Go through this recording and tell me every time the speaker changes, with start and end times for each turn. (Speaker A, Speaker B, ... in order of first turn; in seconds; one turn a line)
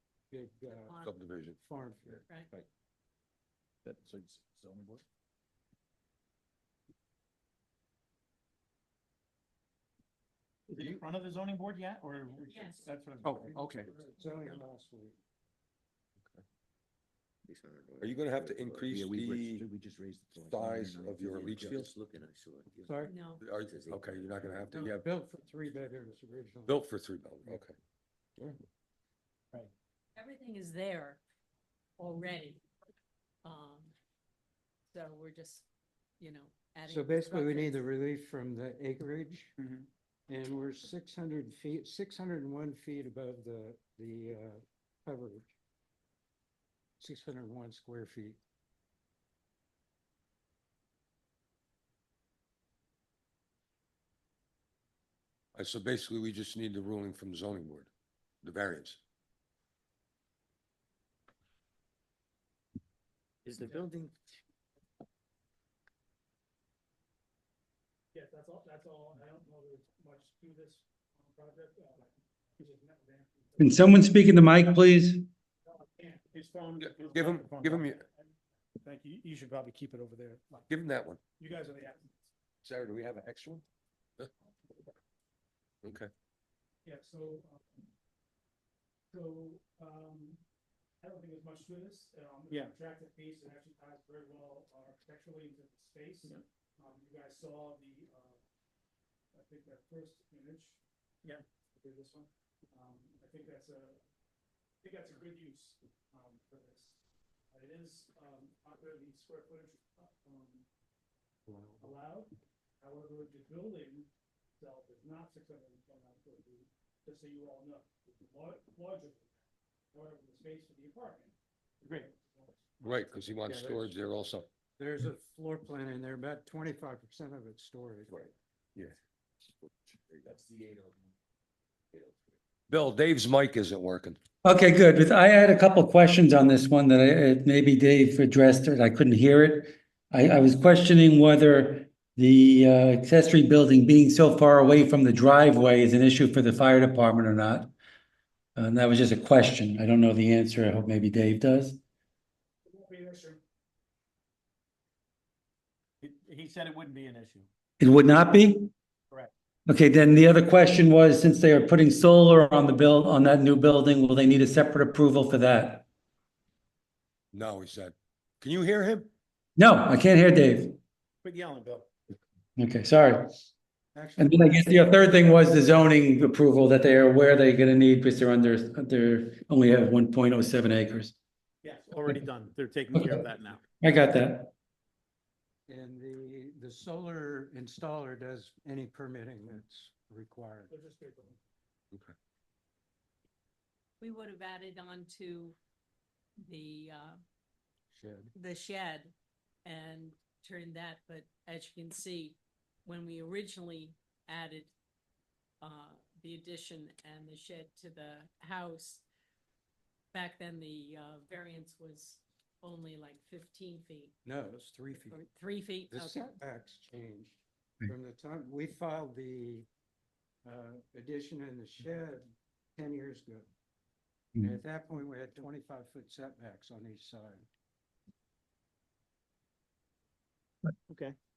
Speaker A: 0.3-0.9
Speaker B: 0.8-1.2
Speaker C: 1.0-1.6
Speaker A: 1.6-2.2
Speaker D: 3.9-5.0
Speaker E: 10.7-13.5
Speaker B: 12.4-12.9
Speaker A: 13.3-15.2
Speaker D: 13.5-13.8
Speaker D: 17.4-23.0
Speaker C: 18.0-19.7
Speaker C: 20.4-21.9
Speaker A: 22.8-23.1
Speaker B: 23.1-23.4
Speaker C: 23.4-25.0
Speaker D: 23.5-24.7
Speaker A: 24.7-26.8
Speaker C: 26.6-27.7
Speaker B: 30.1-31.2
Speaker B: 32.0-32.6
Speaker B: 33.4-33.9
Speaker B: 34.9-35.6
Speaker B: 36.2-37.8
Speaker A: 36.9-39.5
Speaker E: 39.6-39.9
Speaker A: 40.3-45.5
Speaker A: 47.0-48.4
Speaker C: 55.5-57.9
Speaker C: 58.4-59.0
Speaker D: 63.5-64.1
Speaker F: 68.1-74.0
Speaker G: 73.6-75.3
Speaker F: 75.7-76.4
Speaker E: 76.3-77.9
Speaker C: 76.8-78.0
Speaker F: 77.9-80.7
Speaker C: 80.7-81.2
Speaker F: 81.4-82.3
Speaker C: 82.6-83.6
Speaker C: 85.8-86.1
Speaker F: 86.8-87.8
Speaker F: 89.1-90.4
Speaker F: 91.0-98.4
Speaker F: 99.3-104.0
Speaker F: 104.8-110.7
Speaker A: 111.5-111.8
Speaker F: 111.8-122.9
Speaker E: 121.8-122.1
Speaker E: 122.8-123.9
Speaker C: 122.8-124.5
Speaker A: 124.8-128.3
Speaker C: 128.1-129.0
Speaker C: 129.6-130.4
Speaker D: 130.3-130.9
Speaker C: 132.7-134.2
Speaker G: 134.4-147.7
Speaker G: 148.6-151.8
Speaker F: 152.7-153.4
Speaker E: 156.0-157.5
Speaker G: 157.8-158.7
Speaker G: 159.7-165.8
Speaker C: 167.3-169.1
Speaker G: 169.6-170.8
Speaker E: 171.2-171.9
Speaker G: 172.6-173.3
Speaker A: 173.9-175.2
Speaker G: 174.2-181.1
Speaker E: 181.6-183.6
Speaker G: 182.9-183.2
Speaker G: 183.8-184.5
Speaker A: 185.7-190.7
Speaker F: 190.7-191.4
Speaker B: 194.0-195.6
Speaker B: 196.4-197.2
Speaker A: 197.9-198.3
Speaker B: 198.3-199.1
Speaker B: 199.6-204.7
Speaker B: 205.6-209.0
Speaker B: 210.1-214.1
Speaker A: 214.2-215.2
Speaker B: 215.1-216.3
Speaker A: 215.9-219.7
Speaker A: 220.4-223.5
Speaker A: 224.4-227.4
Speaker E: 230.9-231.1